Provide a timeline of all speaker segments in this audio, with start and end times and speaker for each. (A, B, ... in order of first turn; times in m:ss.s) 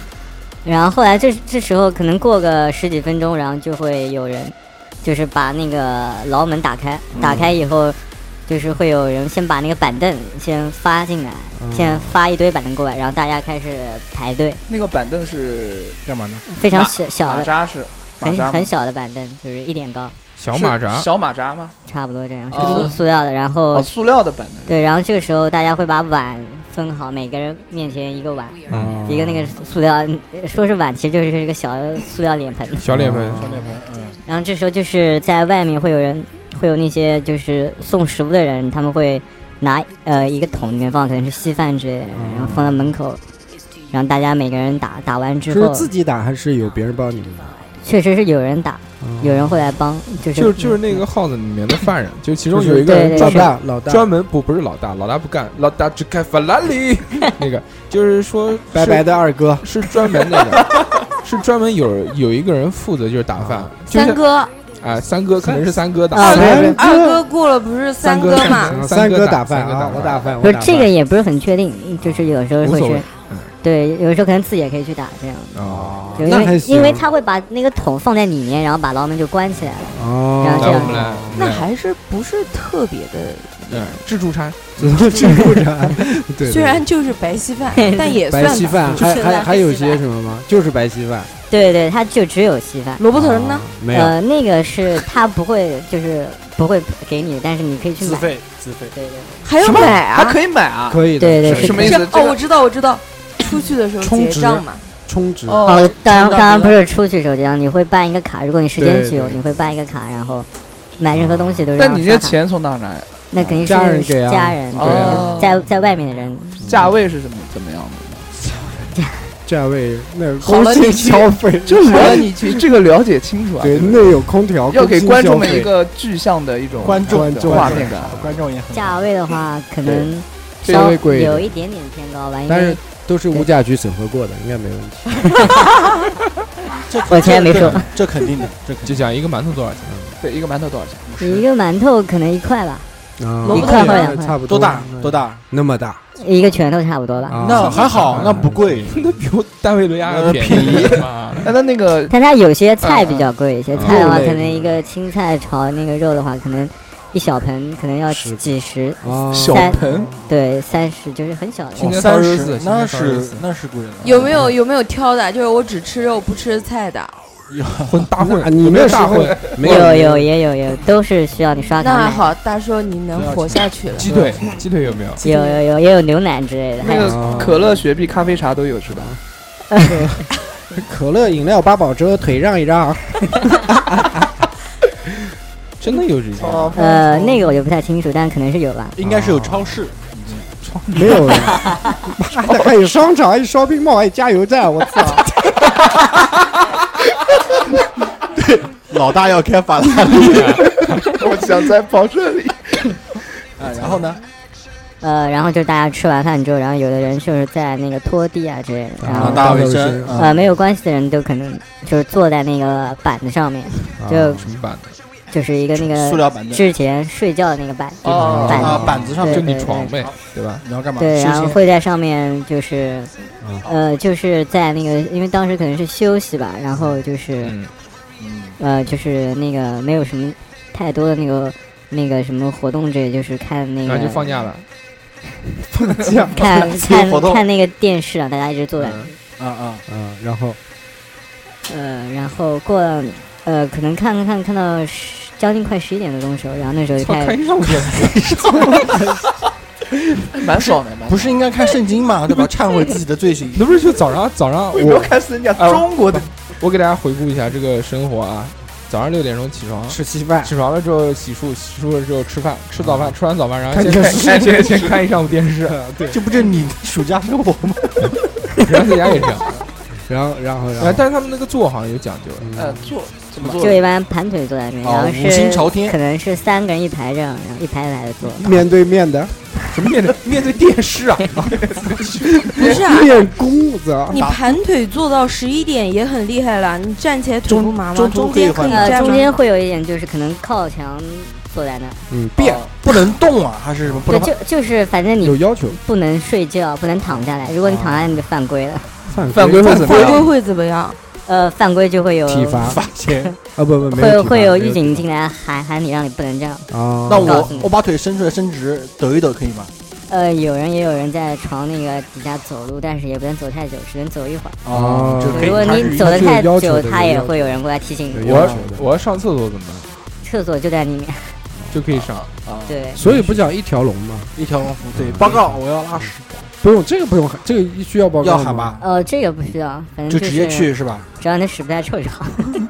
0:00.6-0:14.6 A
0:07.2-0:07.4 B
0:11.6-0:12.2 C
0:14.7-0:16.0 D
0:16.0-0:16.4 B
0:16.5-0:17.5 A
0:16.7-0:18.7 D
0:18.2-0:20.2 A
0:20.4-0:21.1 E
0:20.5-0:21.8 D
0:21.9-0:23.9 A
0:22.5-0:23.0 D
0:23.7-0:24.8 D
0:24.6-0:32.8 A
0:28.7-0:29.0 E
0:28.7-0:29.5 C
0:32.8-0:33.6 E
0:32.9-0:33.8 C
0:33.3-0:34.2 B
0:34.2-0:43.2 A
0:42.1-0:42.9 C
0:43.9-0:45.9 A
0:45.5-0:47.7 C
0:47.8-0:51.0 A
0:49.0-0:49.7 C
0:50.3-0:59.1 E
0:52.5-0:54.1 C
0:52.9-0:53.5 A
0:58.7-0:59.7 C
0:59.6-1:04.2 E
1:03.4-1:03.7 C
1:03.9-1:04.5 F
1:04.8-1:06.8 E
1:06.1-1:06.8 A
1:06.2-1:07.2 C
1:06.2-1:08.7 F
1:08.0-1:10.4 E
1:08.4-1:10.9 C
1:10.4-1:13.1 A
1:12.6-1:13.5 E
1:13.6-1:15.6 A
1:15.5-1:16.1 E
1:15.6-1:17.0 C
1:16.1-1:21.0 A
1:19.9-1:21.4 C
1:20.5-1:21.7 E
1:21.4-1:24.0 F
1:23.7-1:25.1 E
1:24.8-1:26.8 C
1:25.2-1:25.5 F
1:26.4-1:29.2 F
1:27.7-1:28.2 A
1:28.3-1:31.3 C
1:28.9-1:30.0 A
1:31.5-1:33.0 A
1:33.0-1:33.7 F
1:33.1-1:34.2 C
1:33.9-1:38.4 A
1:38.0-1:38.9 B
1:38.9-1:39.4 A
1:39.4-1:40.4 F
1:39.6-1:40.0 C
1:40.1-1:42.4 D
1:40.9-1:42.0 C
1:41.2-1:41.9 A
1:41.6-1:44.8 F
1:44.0-1:45.6 C
1:45.5-1:45.9 D
1:45.6-1:46.8 B
1:45.6-1:50.5 A
1:48.8-1:49.4 C
1:51.0-1:52.4 A
1:51.2-1:51.6 C
1:51.8-1:53.1 D
1:53.3-1:56.7 A
1:53.6-1:55.2 C
1:54.7-1:55.6 D
1:54.8-1:55.3 E
1:56.6-1:58.3 D
1:56.6-1:56.9 C
1:58.5-1:58.9 C
1:59.4-2:02.6 C
2:00.4-2:04.1 D
2:03.6-2:05.7 C
2:04.7-2:08.3 D
2:06.8-2:09.1 B
2:07.0-2:08.0 C
2:08.7-2:12.8 A
2:10.6-2:11.0 D
2:10.6-2:11.6 C
2:12.5-2:15.4 C
2:16.9-2:19.1 B
2:17.1-2:17.9 A
2:18.8-2:20.0 E
2:20.2-2:21.1 D
2:21.0-2:21.4 B
2:21.2-2:22.9 A
2:23.2-2:26.0 C
2:23.4-2:24.1 F
2:23.4-2:24.4 A
2:24.4-2:25.4 B
2:26.2-2:27.8 A
2:27.3-2:29.0 C
2:27.4-2:29.0 B
2:28.0-2:31.5 E
2:30.0-2:31.1 B
2:31.4-2:32.1 D
2:32.1-2:42.0 A
2:33.7-2:34.3 E
2:33.8-2:34.8 C
2:38.1-2:38.5 C
2:39.0-2:40.2 C
2:39.3-2:40.2 D
2:41.8-2:43.4 E
2:41.8-2:44.4 B
2:44.0-2:47.2 F
2:47.5-2:48.1 B
2:47.9-2:50.0 E
2:48.2-2:50.3 C
2:49.6-2:52.3 A
2:51.8-2:54.1 F
2:53.1-2:55.0 B
2:54.0-2:55.2 E
2:55.2-2:55.6 F
2:55.2-2:57.1 A
2:56.8-2:59.2 D
2:57.0-2:57.6 C
2:57.2-2:57.6 B
2:58.9-2:59.2 C
2:59.8-3:04.3 C
3:05.8-3:06.8 E
3:06.4-3:06.8 B
3:06.7-3:07.4 D
3:06.7-3:09.0 A
3:09.0-3:10.6 B
3:09.0-3:09.7 C
3:10.6-3:11.7 E
3:10.9-3:15.3 C
3:18.9-3:21.0 B
3:20.3-3:20.6 E
3:21.1-3:23.0 D
3:23.6-3:24.2 B
3:25.0-3:34.4 A
3:29.0-3:30.2 C
3:29.1-3:30.4 B
3:34.0-3:34.6 C
3:34.4-3:34.9 E
3:35.3-3:39.9 A
3:35.8-3:36.6 B
3:38.0-3:38.8 D
3:38.2-3:39.2 C
3:38.2-3:41.6 B
3:39.2-3:40.6 E
3:41.0-3:43.1 A
3:43.6-3:47.5 A
3:47.4-3:47.7 E
3:48.2-3:48.6 B
3:48.6-3:54.2 A
3:53.8-3:54.6 E
3:55.8-3:56.4 C
3:56.3-3:59.1 A
3:56.6-3:57.4 B
3:58.8-3:59.1 E
3:59.4-3:59.8 B
3:59.9-4:00.6 C
4:01.7-4:07.4 A
4:07.0-4:09.0 E
4:08.4-4:09.2 C
4:10.3-4:11.3 D
4:11.0-4:13.7 B
4:13.5-4:25.9 E
4:14.7-4:16.2 D
4:19.9-4:20.5 C
4:22.8-4:23.1 C
4:23.7-4:24.7 C
4:23.9-4:25.0 D
4:25.7-4:26.2 C
4:26.1-4:28.2 B
4:28.6-4:29.6 E
4:30.0-4:31.0 C
4:30.8-4:32.5 E
4:32.4-4:32.9 C
4:32.5-4:33.9 D
4:33.6-4:38.6 A
4:34.8-4:36.0 B
4:38.4-4:39.3 C
4:39.7-4:42.6 E
4:41.4-4:41.9 C
4:42.4-4:44.2 C
4:42.6-4:43.1 F
4:44.1-4:49.3 F
4:44.1-4:44.4 B
4:47.5-4:49.2 B
4:48.6-4:52.0 A
4:52.1-4:52.6 C
4:52.4-4:54.3 B
4:53.9-4:54.3 C
4:54.1-4:58.9 A
4:55.2-4:55.8 C
4:57.6-4:58.2 C
4:59.1-5:00.2 C
4:59.3-5:00.3 D
4:59.7-5:01.0 F
5:01.2-5:02.8 A
5:02.2-5:02.8 C
5:02.6-5:03.4 B
5:03.5-5:05.0 C
5:03.9-5:06.7 A
5:06.7-5:07.6 C
5:07.1-5:09.7 B
5:07.2-5:07.7 A
5:10.1-5:14.6 A
5:14.6-5:16.4 B
5:14.7-5:17.6 C
5:15.3-5:18.4 A
5:18.1-5:18.9 C
5:18.2-5:19.9 E
5:18.3-5:18.7 B
5:20.2-5:21.4 A
5:21.7-5:22.3 E
5:21.9-5:23.4 B
5:22.7-5:23.0 A
5:23.0-5:24.3 C
5:24.4-5:26.5 B
5:25.0-5:26.1 C
5:25.0-5:25.4 E
5:26.6-5:28.8 C
5:28.2-5:28.8 B
5:28.8-5:32.6 A
5:30.1-5:31.1 B